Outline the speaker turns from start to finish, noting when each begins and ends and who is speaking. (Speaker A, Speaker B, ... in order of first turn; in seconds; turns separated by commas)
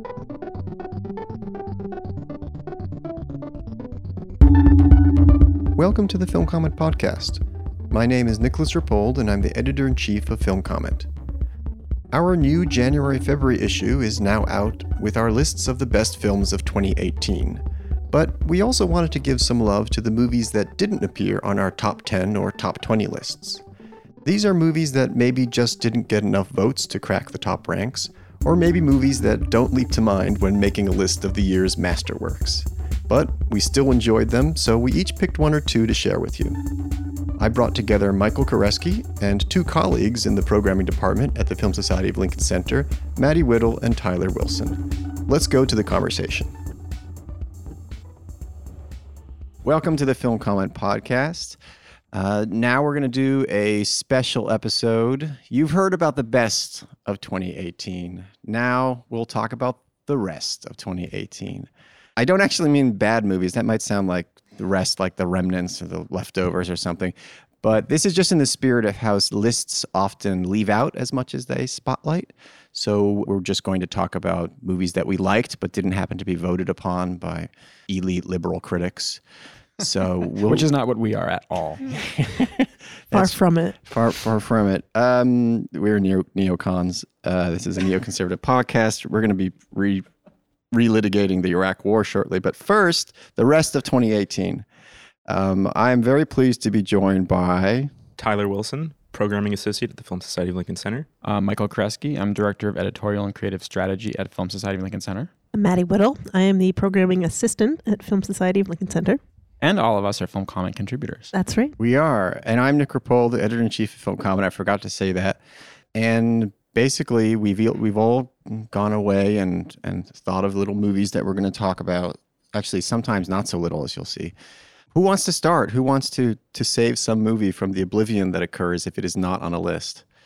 Speaker A: 5.8-11.1, Speaker A: 12.1-23.6, Speaker A: 24.2-36.6, Speaker A: 37.4-46.5, Speaker A: 49.6-51.6, Speaker A: 52.1-79.2, Speaker A: 79.8-80.7, Speaker B: 80.4-82.0, Speaker A: 81.9-90.0, Speaker C: 83.1-83.8, Speaker A: 90.7-94.7, Speaker A: 95.3-97.9, Speaker D: 98.2-101.1, Speaker B: 101.2-105.3, Speaker C: 105.5-109.2, Speaker B: 109.6-111.3, Speaker C: 111.3-111.8, Speaker A: 111.8-115.4, Speaker A: 115.9-124.3, Speaker A: 124.9-130.0